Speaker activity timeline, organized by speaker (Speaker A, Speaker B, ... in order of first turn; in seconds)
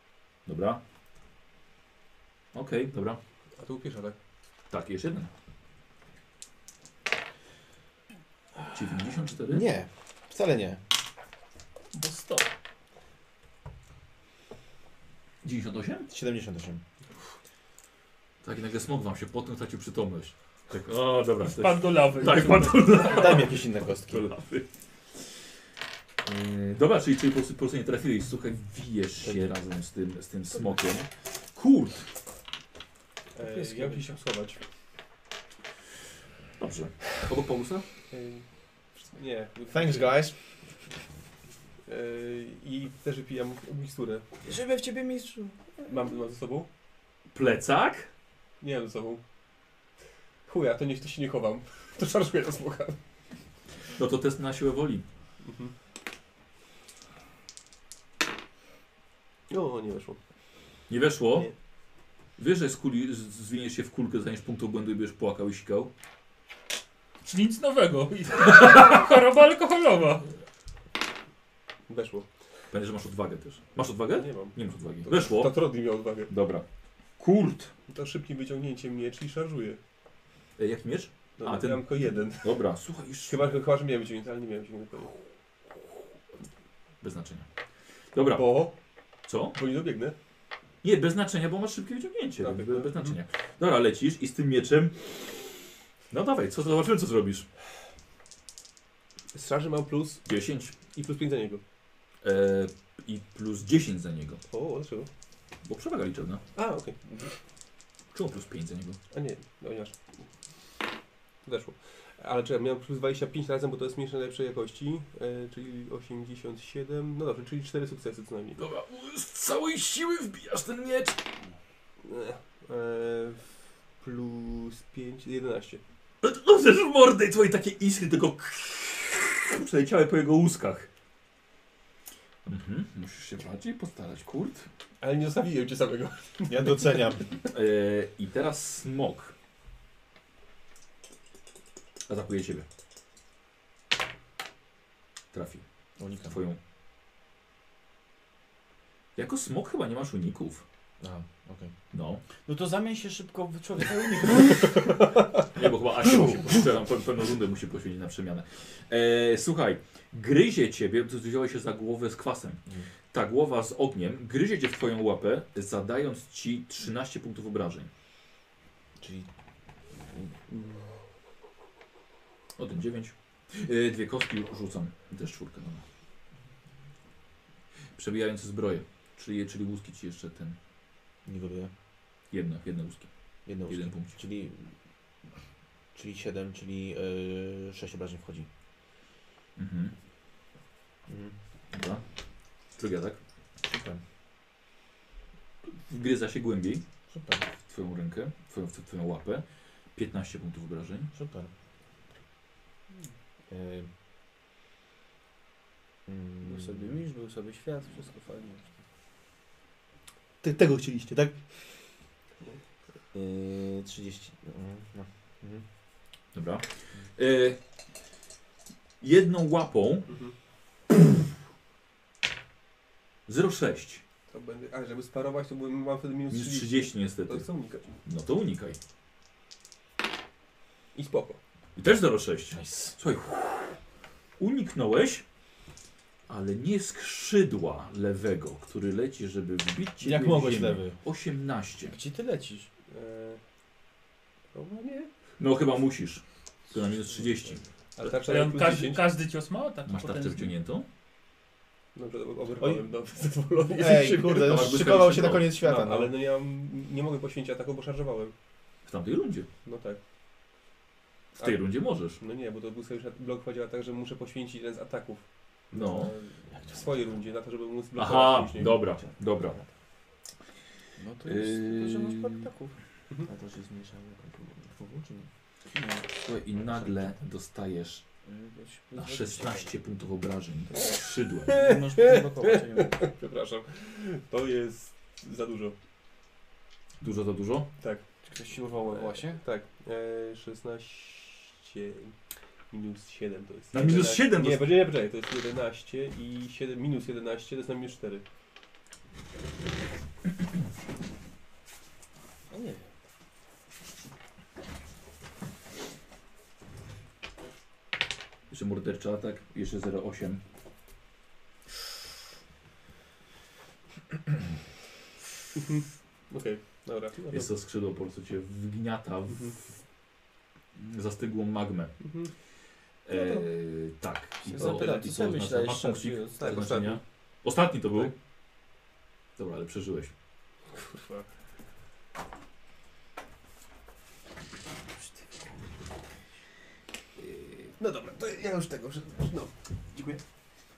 Speaker A: 0.5-0.8, 2.5-3.2, 4.7-5.3, 8.7-9.7, 15.4-16.1, 18.4-24.7, 26.2-32.1, 36.6-37.9, 47.3-48.1, 54.0-55.0, 60.9-61.5, 62.4-65.9, 72.7-75.6, 76.2-76.6, 77.2-77.7, 80.6-83.5, 87.0-87.5, 88.1-88.7, 89.2-89.6, 90.8-95.5, 96.1-97.5, 100.2-100.8, 102.2-104.4, 105.6-106.4, 108.1-109.0, 118.6-121.2, 126.2-130.9, 132.4-134.7, 137.5-139.3, 142.1-142.7, 145.3-145.6, 146.2-146.6, 149.2-150.6, 151.9-152.2, 155.5-167.9, 172.6-175.8, 177.9-180.6, 182.3-184.1, 189.6-189.9, 191.7-192.0, 192.8-193.2, 195.7-196.8, 197.7-201.1, 216.3-217.6, 219.0-220.1, 223.3-224.0, 226.3-227.5, 228.0-228.8, 231.8-233.8, 234.4-235.2, 236.3-241.9, 245.4-247.6, 249.8-250.8, 254.3-255.5, 258.9-259.5, 261.4-262.2, 265.7-266.1, 267.9-269.6, 271.2-272.4, 276.1-278.0, 278.9-281.6, 287.0-287.7, 293.7-294.8, 308.5-310.4, 317.3-319.6, 320.7-322.0, 323.0-328.1, 329.4-330.1
Speaker B: 3.6-4.2, 33.3-34.6, 38.1-40.2, 41.8-44.2, 45.8-46.7, 48.6-49.2, 50.5-53.0, 55.4-55.7, 59.5-60.2, 71.9-72.3, 74.1-76.3, 77.9-79.8, 81.4-82.7, 83.2-85.1, 88.3-88.7, 89.5-90.1, 92.4-93.2, 99.3-101.6, 104.5-105.1, 106.5-107.0, 109.1-110.0, 111.4-118.6, 122.0-125.8, 135.0-137.2, 220.1-220.3, 224.3-227.9, 230.9-231.4, 242.9-243.4, 244.5-245.1, 248.0-249.1, 251.9-258.3, 259.6-260.0, 261.4-268.9, 281.5-285.8, 287.8-288.1, 288.7-298.2, 315.6-317.5, 319.3-319.6, 322.0-322.3, 324.5-325.3, 326.0-327.0, 330.7-331.3, 337.8-340.2
Speaker C: 9.5-10.8, 16.1-16.8, 23.0-24.3, 29.2-29.5, 39.7-40.4, 136.5-137.2, 146.0-146.4, 151.0-151.7, 169.0-169.3, 181.2-181.7, 183.4-184.7, 185.9-188.5, 191.1-191.3, 193.6-194.0, 197.1-197.4, 201.1-201.5, 203.5-203.9, 206.1-207.0, 210.4-211.4, 213.1-215.6, 232.5-232.9, 240.0-241.0, 252.6-252.8, 253.7-256.1, 268.9-269.1, 273.3-275.3
Speaker D: 11.9-12.5, 21.4-23.1, 67.2-70.3, 248.2-250.5
Speaker E: 33.4-34.1, 44.4-45.9, 152.4-154.8, 206.4-208.7, 241.9-242.7, 271.0-272.8, 275.7-276.1, 278.2-279.7, 281.5-283.0, 288.2-289.4, 302.5-302.8, 323.1-323.5, 324.5-326.3